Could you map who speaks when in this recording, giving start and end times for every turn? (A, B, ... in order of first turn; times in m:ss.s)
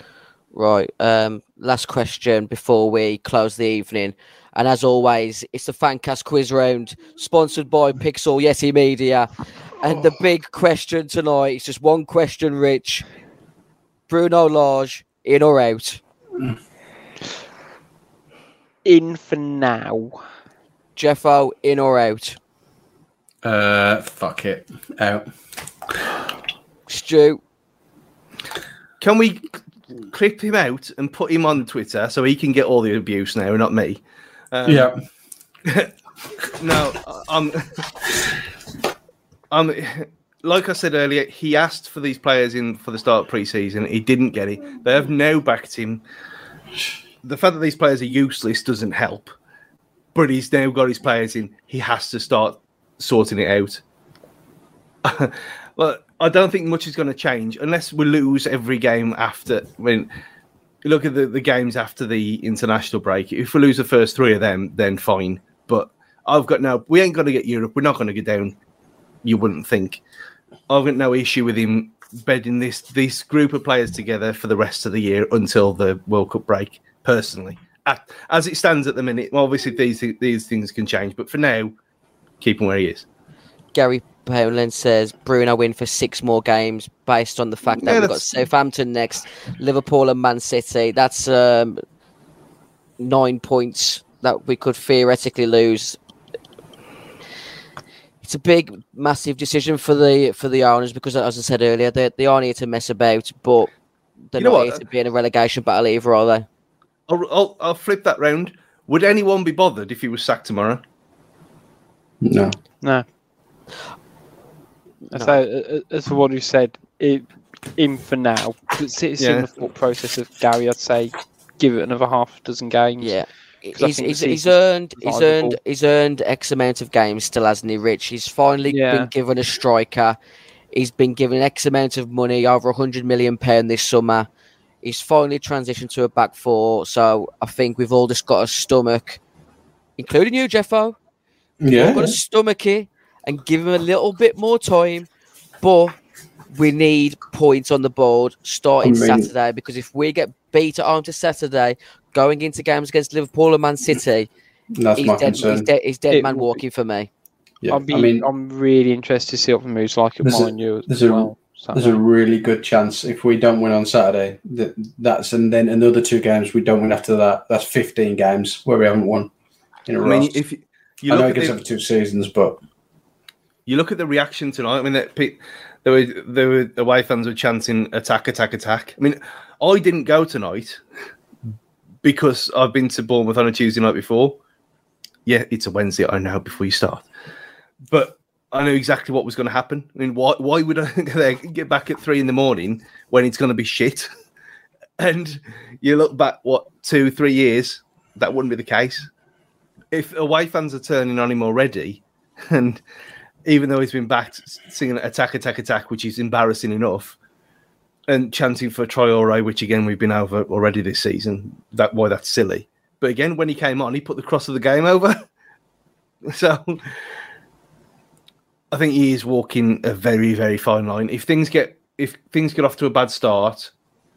0:00.5-0:13.0 A
0:14.1-0:16.0 A
0:18.8-0:20.2 B
0:21.0-0:22.4 A
0:23.4-0:25.3 C
0:26.9-0:27.4 A
0:29.0-0:29.5 D
0:30.1-0:34.0 D
0:34.5-0:34.9 D
0:34.6-0:34.9 C
0:35.6-0:35.9 D
0:36.5-0:37.8 D
0:39.5-0:46.0 D
0:47.2-0:49.3 D
0:50.1-0:53.8 D
0:55.0-1:00.1 D
1:00.8-1:08.6 D
1:09.2-1:10.0 D
1:10.7-1:21.7 D
1:22.4-1:23.0 D
1:23.7-1:31.8 A
1:27.8-1:28.3 D
1:33.0-1:36.0 A
1:38.2-1:43.7 A
1:44.3-1:46.4 A
1:44.4-1:44.8 D
1:47.1-1:50.8 D
1:52.2-1:52.6 C
1:55.1-1:57.2 B
1:55.1-1:55.4 A
1:57.8-2:03.2 B
1:59.2-1:59.5 D
2:03.0-2:10.2 A
2:03.7-2:05.6 B
2:08.7-2:09.1 B
2:10.7-2:14.3 A
2:14.8-2:19.2 A
2:20.0-2:21.0 A
2:21.6-2:22.2 C
2:21.7-2:25.1 A
2:25.6-2:26.0 A
2:26.5-2:34.3 A
2:28.8-2:29.3 C
2:34.8-2:35.6 C
2:35.0-2:37.1 A
2:36.1-2:36.6 B
2:37.6-2:38.2 C
2:37.7-2:41.9 B
2:40.2-2:49.3 C
2:49.9-2:50.4 C
2:50.0-2:51.6 D
2:51.1-2:52.6 C
2:53.6-3:00.8 D
3:02.0-3:04.4 D
3:05.2-3:07.0 D
3:07.9-3:14.1 D
3:15.0-3:19.1 D
3:19.9-3:22.8 D
3:23.4-3:27.2 D
3:28.1-3:35.2 D
3:36.2-3:36.9 D
3:38.7-3:43.7 D